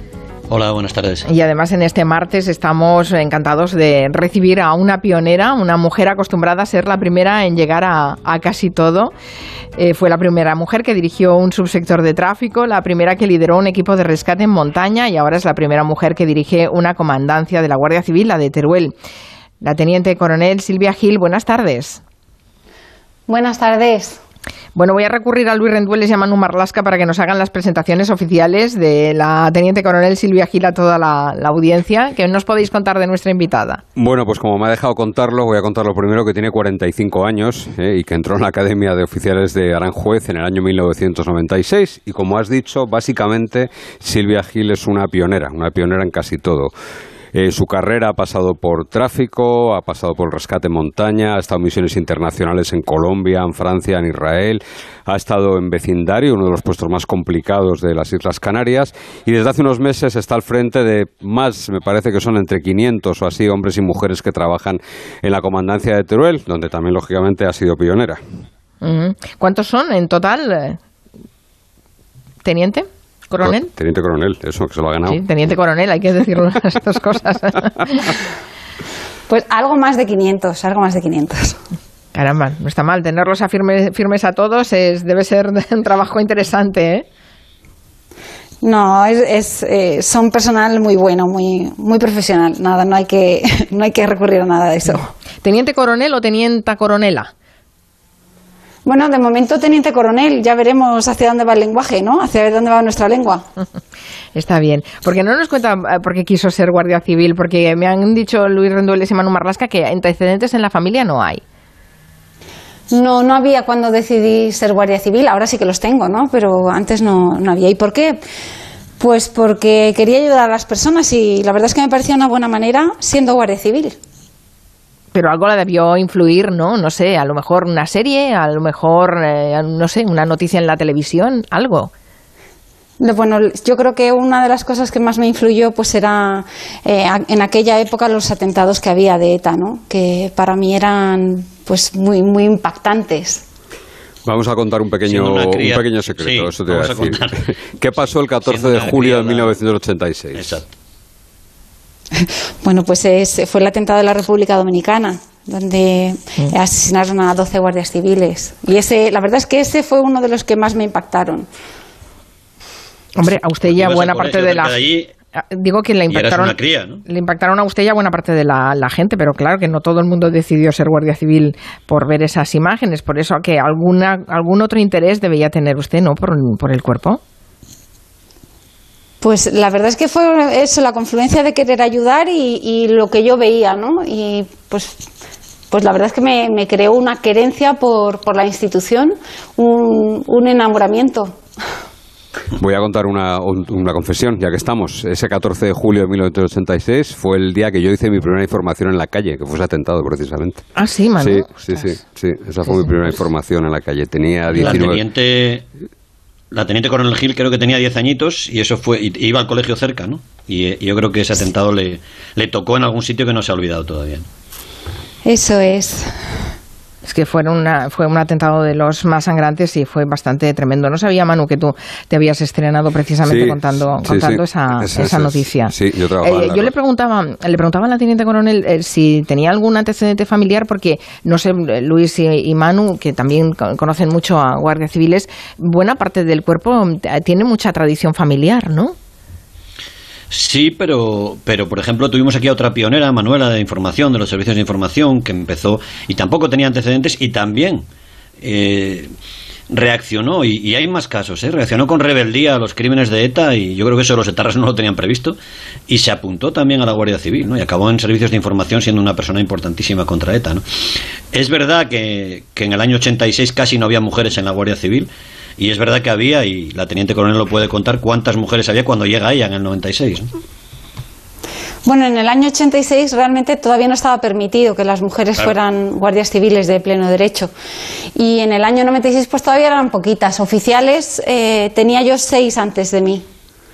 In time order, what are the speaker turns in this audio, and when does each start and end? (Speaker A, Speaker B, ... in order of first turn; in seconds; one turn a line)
Speaker A: 0.5-1.3
Speaker B: 1.2-9.1
Speaker B: 9.8-18.9
Speaker B: 19.6-22.0
Speaker C: 23.3-24.2
Speaker B: 24.8-33.8
Speaker D: 34.0-46.7
Speaker D: 47.3-68.2
Speaker B: 68.8-70.8
Speaker B: 72.4-73.7
Speaker D: 73.4-75.2
Speaker B: 75.1-78.2
Speaker C: 79.3-81.6
Speaker B: 82.1-87.1
Speaker C: 88.6-95.1
Speaker B: 95.4-97.3
Speaker C: 98.8-103.4
Speaker B: 104.3-111.4
Speaker C: 112.9-118.2
Speaker C: 119.0-124.0
Speaker B: 125.1-131.9
Speaker C: 133.0-143.4
Speaker D: 144.2-150.5
Speaker A: 145.1-147.5
Speaker A: 148.4-149.6
Speaker A: 150.4-150.7
Speaker C: 152.2-161.5
Speaker B: 163.2-164.8
Speaker A: 163.6-165.1
Speaker B: 165.3-177.2
Speaker A: 166.1-167.0
Speaker C: 179.2-185.1
Speaker C: 185.7-191.4
Speaker D: 192.6-200.6
Speaker B: 200.8-201.9
Speaker D: 201.2-205.0
Speaker A: 204.6-205.7
Speaker A: 206.5-214.3
Speaker C: 215.2-216.1
Speaker B: 217.1-238.9
Speaker D: 223.2-226.7
Speaker A: 240.3-247.8
Speaker A: 248.4-249.1
Speaker A: 249.7-255.4
Speaker A: 255.9-260.6
Speaker A: 261.3-270.3
Speaker C: 271.9-277.5
Speaker C: 278.1-283.2